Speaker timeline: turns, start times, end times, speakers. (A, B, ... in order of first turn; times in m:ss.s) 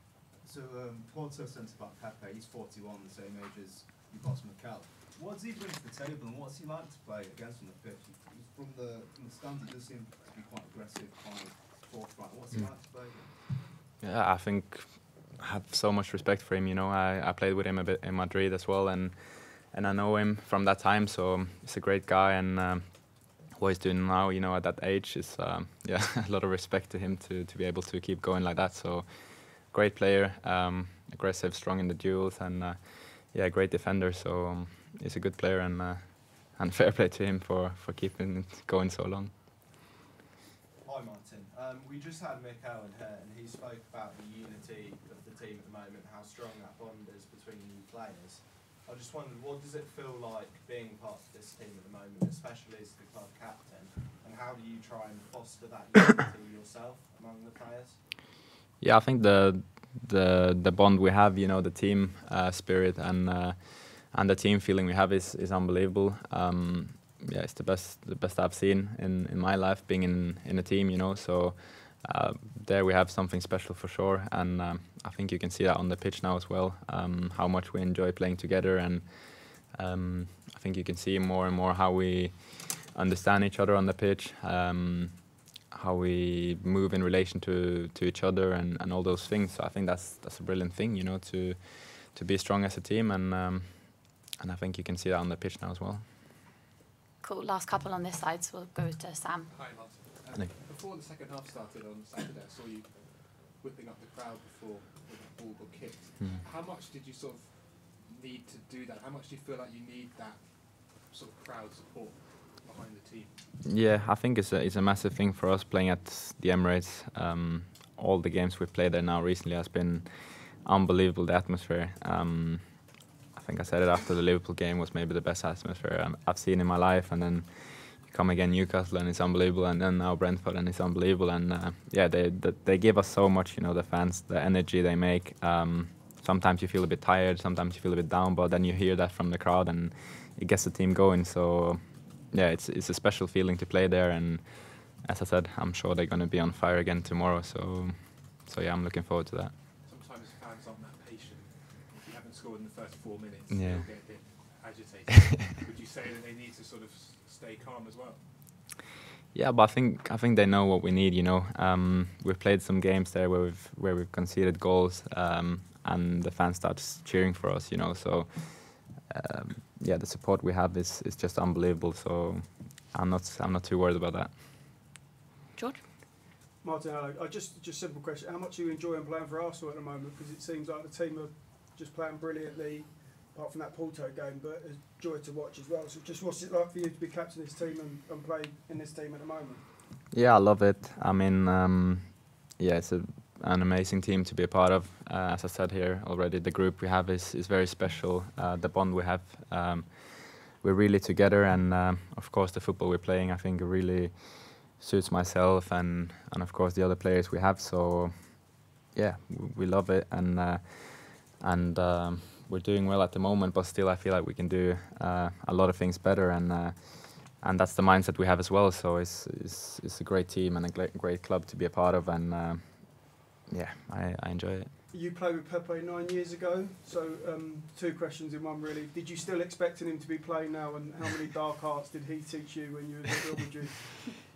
0:00.4-0:13.6 A
0:14.0-0:39.3 B
0:40.8-0:58.0 C
0:58.8-1:36.1 B
1:37.2-1:39.5 D
1:39.5-1:53.3 E
1:39.6-1:40.5 F
1:46.2-1:46.4 B
1:53.6-2:29.5 B
2:29.8-2:38.2 E
2:33.5-2:33.9 B
2:39.3-2:54.4 B
2:55.6-2:55.8 D
2:56.6-3:09.6 F
3:10.1-3:44.7 B
3:44.9-3:54.0 F